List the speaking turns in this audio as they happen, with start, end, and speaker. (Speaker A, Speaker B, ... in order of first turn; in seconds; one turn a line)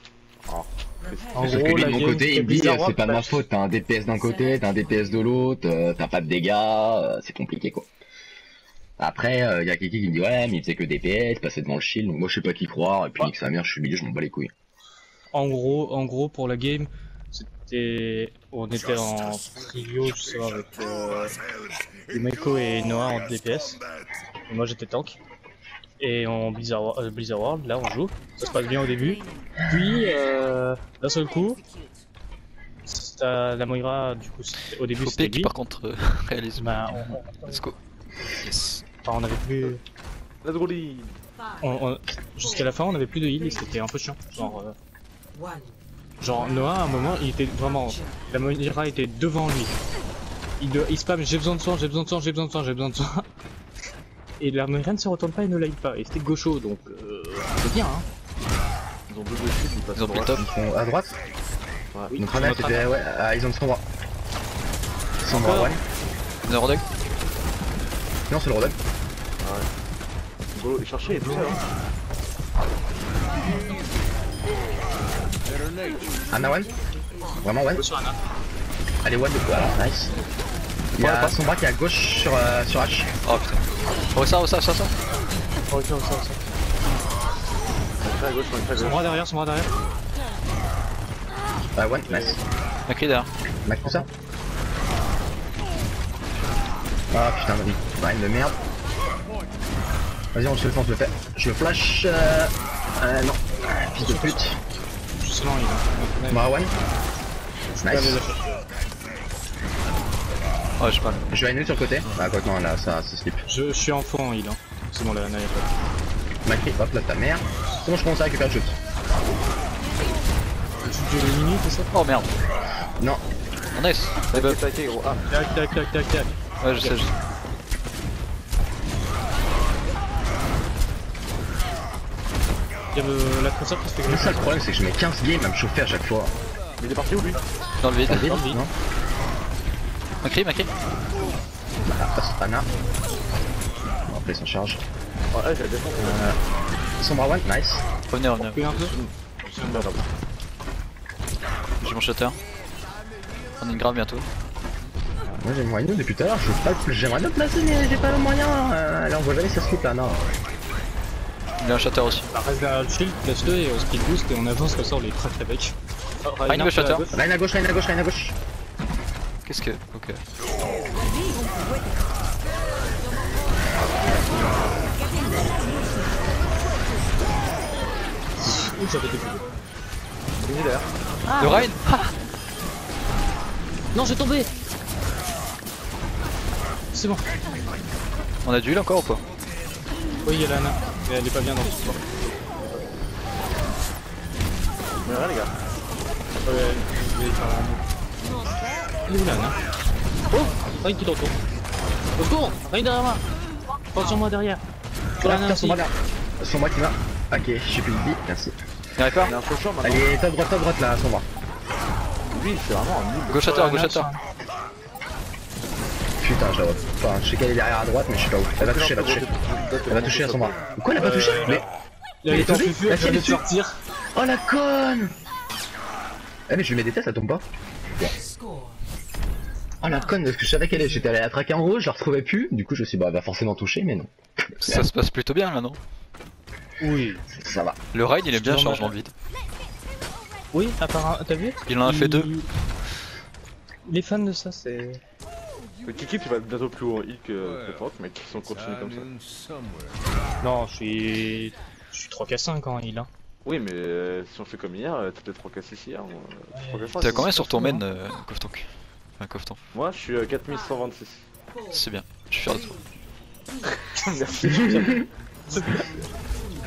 Speaker A: 0.5-1.4
Speaker B: 1.3-3.4
Speaker C: 1.4-7.9
Speaker C: 9.0-14.5
Speaker B: 15.3-21.3
Speaker B: 22.1-23.8
Speaker B: 24.5-25.2
Speaker B: 26.0-31.6
Speaker B: 32.9-35.5
Speaker D: 34.9-37.8
Speaker B: 36.6-37.6
Speaker D: 38.4-38.8
Speaker B: 39.0-39.8
Speaker A: 40.4-41.1
Speaker B: 41.6-44.8
Speaker B: 46.2-49.8
Speaker B: 50.6-53.2
Speaker B: 54.4-58.0
Speaker A: 59.1-60.5
Speaker D: 60.0-60.4
Speaker C: 60.4-61.1
Speaker B: 62.1-62.9
Speaker C: 62.2-63.8
Speaker C: 65.2-65.8
Speaker B: 65.4-65.7
Speaker D: 66.4-66.8
Speaker C: 68.3-68.8
Speaker A: 69.4-69.7
Speaker A: 70.5-71.6
Speaker C: 76.3-76.7
Speaker C: 77.4-77.8
Speaker B: 77.8-78.2
Speaker C: 79.0-80.1
Speaker C: 81.0-83.1
Speaker D: 81.1-81.3
Speaker D: 83.2-84.9
Speaker B: 85.7-86.5
Speaker A: 88.0-89.1
Speaker B: 88.8-89.8
Speaker C: 91.8-92.4
Speaker B: 92.1-92.4
Speaker D: 92.9-93.3
Speaker C: 93.6-94.0
Speaker C: 97.1-98.5
Speaker C: 100.3-104.6
Speaker B: 104.0-104.4
Speaker B: 105.2-106.5
Speaker C: 106.3-106.7
Speaker C: 107.8-108.2
Speaker B: 107.8-108.7
Speaker D: 110.8-111.2
Speaker C: 111.3-113.4
Speaker B: 113.5-115.7
Speaker C: 116.4-118.8
Speaker B: 120.8-121.9
Speaker D: 121.9-122.3
Speaker D: 123.7-124.6
Speaker A: 124.3-125.2
Speaker B: 125.3-127.0
Speaker D: 126.6-127.1
Speaker B: 132.9-134.5
Speaker C: 134.1-136.3
Speaker A: 136.8-137.4
Speaker D: 137.8-138.3
Speaker C: 138.1-138.7
Speaker B: 138.1-138.6
Speaker D: 140.2-140.7
Speaker C: 141.9-142.7
Speaker C: 144.1-144.8
Speaker A: 145.3-146.3
Speaker C: 146.0-146.3
Speaker C: 147.0-147.8
Speaker D: 148.1-148.8
Speaker B: 148.4-148.9
Speaker A: 148.7-150.1
Speaker B: 149.5-150.1
Speaker D: 151.8-152.4
Speaker D: 153.6-154.3
Speaker C: 155.4-160.2
Speaker D: 161.6-162.3
Speaker B: 162.3-167.2
Speaker D: 166.5-167.0
Speaker C: 167.1-168.3
Speaker D: 169.4-170.2
Speaker A: 173.7-174.7
Speaker B: 178.4-179.5
Speaker A: 180.4-180.9
Speaker B: 181.3-181.6
Speaker C: 181.4-181.7
Speaker D: 181.4-182.1
Speaker B: 183.9-184.5
Speaker B: 186.9-187.2
Speaker D: 188.4-189.2
Speaker B: 190.2-192.0
Speaker A: 195.0-195.5
Speaker B: 196.4-197.8
Speaker B: 199.1-199.6
Speaker B: 200.3-201.3
Speaker B: 202.2-203.2
Speaker B: 203.9-204.6
Speaker B: 205.2-205.8
Speaker C: 205.2-208.6
Speaker D: 209.0-209.3
Speaker A: 209.2-210.1
Speaker C: 209.8-211.3
Speaker A: 212.3-213.6
Speaker D: 213.3-214.1
Speaker B: 213.4-214.2
Speaker C: 216.2-219.3
Speaker A: 218.6-220.6
Speaker C: 219.9-221.6
Speaker B: 220.9-221.6
Speaker B: 222.2-223.8
Speaker C: 222.3-223.4
Speaker C: 224.1-225.1
Speaker C: 226.5-227.4
Speaker C: 229.8-234.1
Speaker D: 234.6-235.8
Speaker B: 236.8-237.2
Speaker C: 237.3-237.8
Speaker D: 237.9-239.1
Speaker B: 238.3-238.9
Speaker B: 240.5-242.5
Speaker D: 241.7-242.3
Speaker B: 243.8-245.0
Speaker A: 245.8-249.1
Speaker B: 250.4-253.1
Speaker A: 253.4-257.3
Speaker B: 256.5-257.8
Speaker D: 257.0-259.6
Speaker A: 259.7-261.2
Speaker D: 261.7-262.8
Speaker A: 263.8-265.1
Speaker B: 264.5-264.9
Speaker B: 265.5-265.9